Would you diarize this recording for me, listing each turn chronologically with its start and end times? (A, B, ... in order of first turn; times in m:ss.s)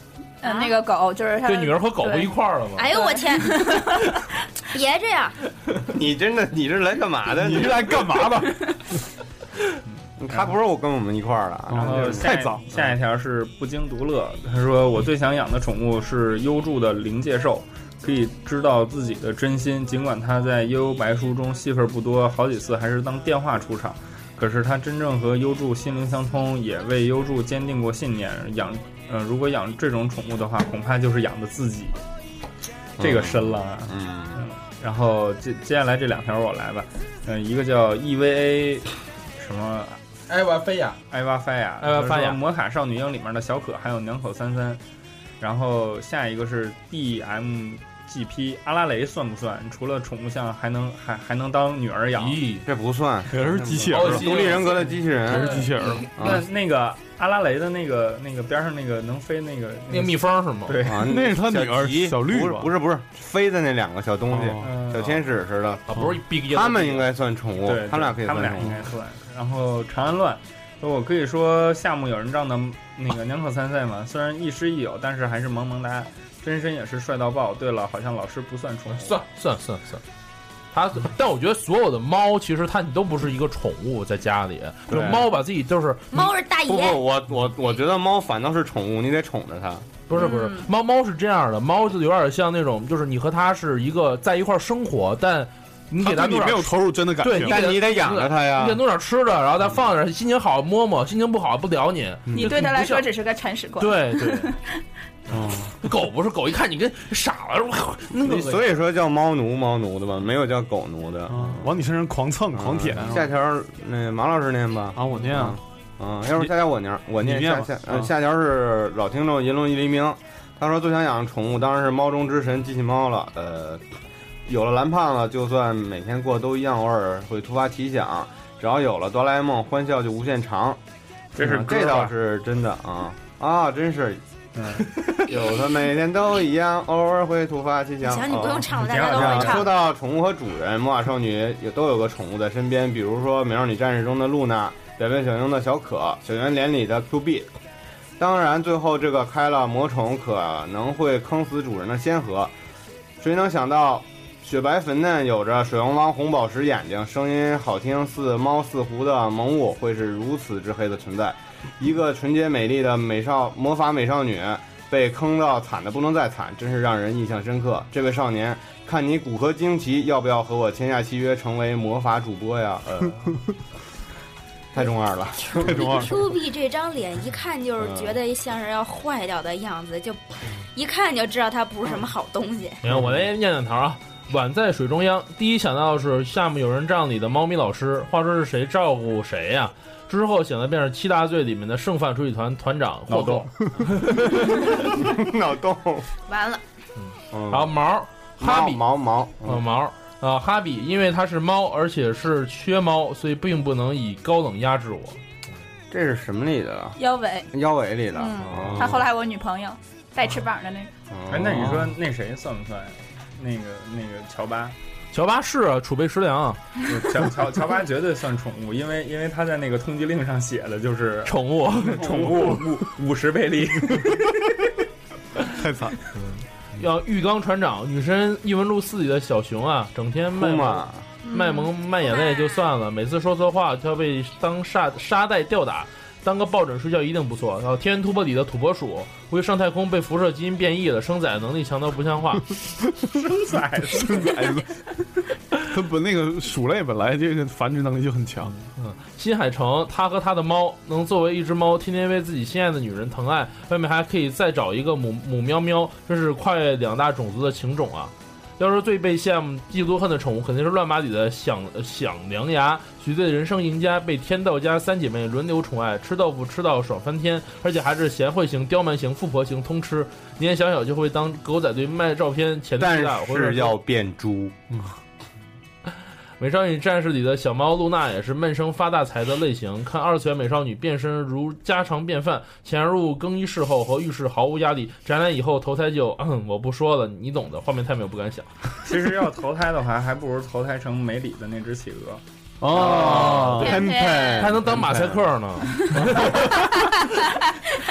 0:00.4-0:02.4 A
0:00.4-0:00.8 B
0:01.4-0:02.9 C
0:02.8-0:04.0 B
0:02.9-0:04.0 A
0:04.7-0:05.4 B
0:05.9-0:08.0 D
0:07.3-0:08.8 E
0:10.2-0:12.3 D
0:11.7-0:12.7 E
0:11.8-0:32.0 F
0:33.0-0:34.4 D
0:33.0-0:40.0 F
0:40.3-0:41.0 C
0:41.1-0:44.8 F
0:41.8-0:42.4 C
0:45.4-0:52.4 F
0:52.2-0:52.7 C
0:52.6-0:56.5 D
0:53.3-0:54.4 E
0:53.9-0:56.0 C
0:55.3-0:56.1 E
0:56.2-1:01.0 F
0:59.9-1:00.8 C
1:00.8-1:08.8 D
1:01.0-1:02.7 E
1:04.3-1:04.7 E
1:04.6-1:05.2 F
1:05.9-1:07.1 C
1:07.6-1:19.2 F
1:18.9-1:20.0 C
1:20.7-1:26.3 C
1:24.9-1:25.3 D
1:26.1-1:27.0 B
1:26.7-1:30.0 D
1:30.1-1:43.1 C
1:30.1-1:30.7 A
1:36.0-1:37.7 E
1:37.4-1:38.8 D
1:42.3-1:42.6 E
1:42.4-1:44.8 A
1:43.8-1:44.5 C
1:45.3-1:45.7 E
1:45.3-1:48.7 C
1:48.1-1:51.7 D
1:51.3-1:53.3 E
1:52.5-2:03.8 D
1:55.0-1:55.6 E
1:56.3-1:56.5 E
1:57.2-1:58.1 E
2:04.5-2:10.8 D
2:11.4-2:12.1 F
2:11.4-2:14.2 D
2:14.6-2:14.9 F
2:15.0-2:27.5 D
2:18.0-2:19.8 B
2:18.8-2:19.6 F
2:28.2-2:32.5 D
2:33.2-2:53.4 D
2:54.7-2:56.2 D
2:55.5-3:02.8 B
2:55.6-2:56.1 E
2:57.8-2:58.2 D
3:02.8-3:14.6 C
3:13.1-3:13.5 F
3:14.3-3:16.1 D
3:16.3-3:16.6 B
3:17.0-3:18.8 C
3:17.3-3:17.8 D
3:18.4-3:19.6 D
3:19.4-3:25.2 C
3:25.9-3:27.0 D
3:27.0-3:27.5 A
3:27.5-3:29.1 D
3:28.1-3:30.9 A
3:28.5-3:29.0 C
3:31.1-3:31.9 D
3:31.3-3:34.8 F
3:35.1-3:36.6 C
3:36.9-3:44.6 F
3:41.3-3:42.2 C
3:45.5-3:46.0 E
3:46.2-4:02.6 C
3:50.4-3:51.1 D
3:51.3-3:51.7 A
3:52.2-3:52.5 B
4:03.2-4:04.3 F
4:03.9-4:04.8 E
4:05.6-4:08.6 E
4:08.6-4:33.8 C
4:32.8-4:34.6 D
4:36.4-4:48.5 C
4:48.8-4:52.2 F
4:52.6-4:53.8 E
4:52.7-4:55.2 D
4:52.7-4:56.8 C
4:53.6-4:54.5 A